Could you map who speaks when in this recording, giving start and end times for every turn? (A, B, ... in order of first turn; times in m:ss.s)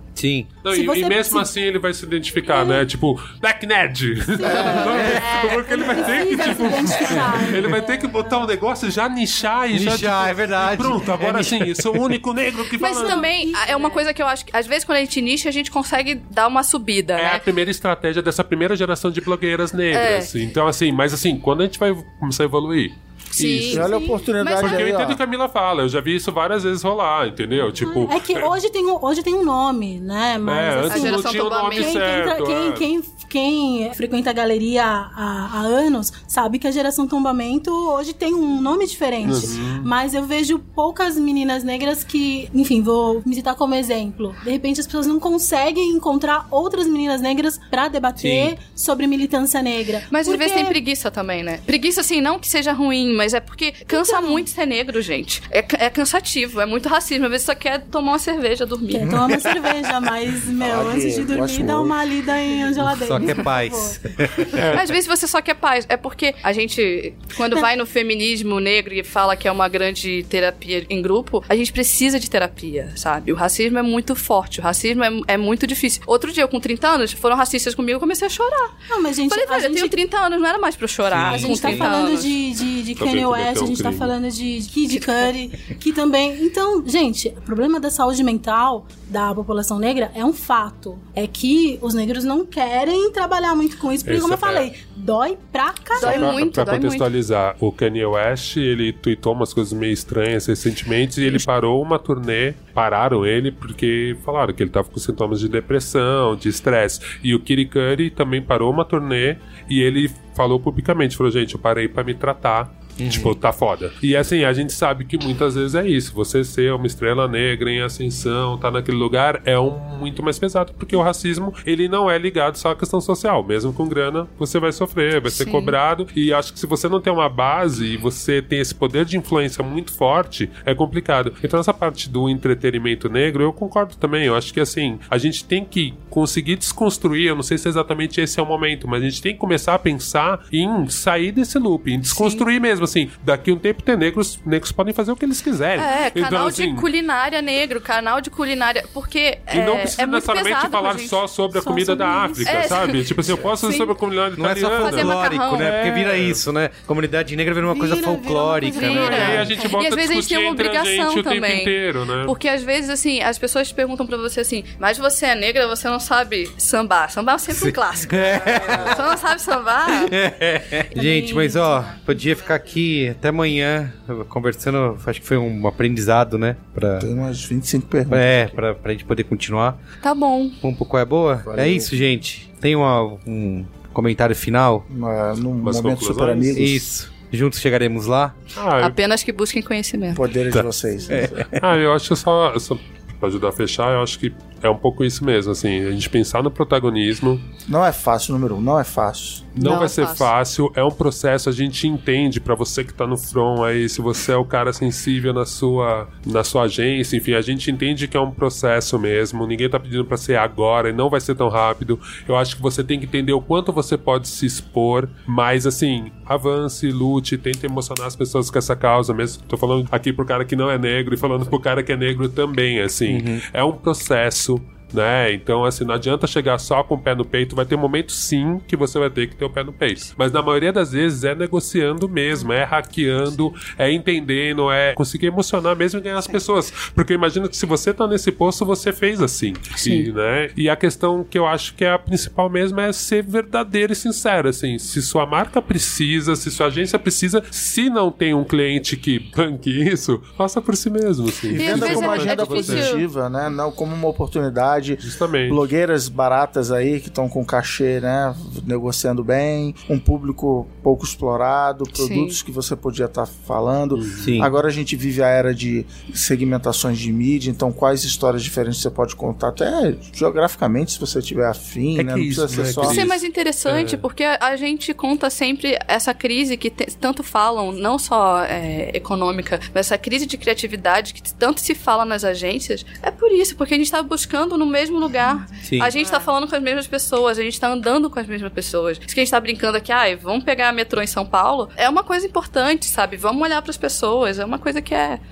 0:00.2-0:00.6 A
0:00.6-0:13.3 B
0:00.7-0:01.5 C
0:02.5-0:02.8 C
0:04.4-0:08.5 C
0:04.4-0:04.9 D
0:04.6-0:05.4 A
0:07.0-0:07.4 A
0:09.7-0:11.8 A
0:12.8-0:17.4 E
0:12.8-0:14.0 C
0:17.2-0:23.9 B
0:19.9-0:20.3 E
0:23.4-0:25.0 E
0:23.6-0:25.2 D
0:24.6-0:28.5 B
0:27.7-0:50.8 C
0:30.4-0:32.9 B
0:30.8-0:32.1 E
0:39.2-0:39.9 B
0:48.2-0:48.6 A
0:50.1-0:59.5 E
0:53.9-0:54.5 C
0:58.9-1:04.7 C
0:59.0-0:59.5 D
1:00.6-1:02.0 D
1:02.8-1:04.9 A
1:04.6-1:04.9 B
1:04.7-1:18.8 E
1:18.9-1:20.0 C
1:19.3-1:22.4 E
1:21.1-1:21.9 A
1:21.2-1:36.4 C
1:23.0-1:24.1 B
1:25.0-1:25.3 E
1:34.0-1:34.7 B
1:35.9-1:37.1 E
1:36.0-2:26.9 B
1:53.0-1:53.3 A
2:05.3-2:05.8 E
2:22.1-2:22.4 E
2:25.8-2:31.2 E
2:29.5-2:36.4 B
2:31.5-2:32.8 C
2:32.4-2:33.0 E
2:33.6-2:33.9 E
2:34.4-2:39.6 A
2:34.8-2:35.9 E
2:37.6-2:39.7 C
2:38.8-2:42.3 B
2:38.8-2:50.1 E
2:47.5-2:49.0 A
2:48.4-2:48.9 B
2:50.0-2:57.1 A
2:50.9-2:52.1 C
2:57.0-2:58.6 D
2:58.1-2:59.8 A
3:00.0-3:00.6 E
3:00.6-3:04.9 A
3:01.4-3:02.0 D
3:04.9-3:06.9 D
3:05.6-3:06.6 B
3:06.6-3:08.4 A
3:08.6-3:09.0 B
3:08.8-3:10.2 E
3:10.1-3:11.5 D
3:11.1-3:11.6 A
3:11.6-3:17.4 B
3:17.7-3:19.6 D
3:19.6-4:13.0 B
3:19.6-3:20.3 E
3:43.1-3:43.4 A
4:11.5-4:33.1 D
4:11.5-4:13.0 E
4:15.0-4:15.6 B
4:22.0-4:22.4 E
4:23.9-4:24.3 B
4:24.2-4:24.5 A
4:32.0-4:34.0 B
4:32.8-4:55.2 E
4:45.6-4:45.9 A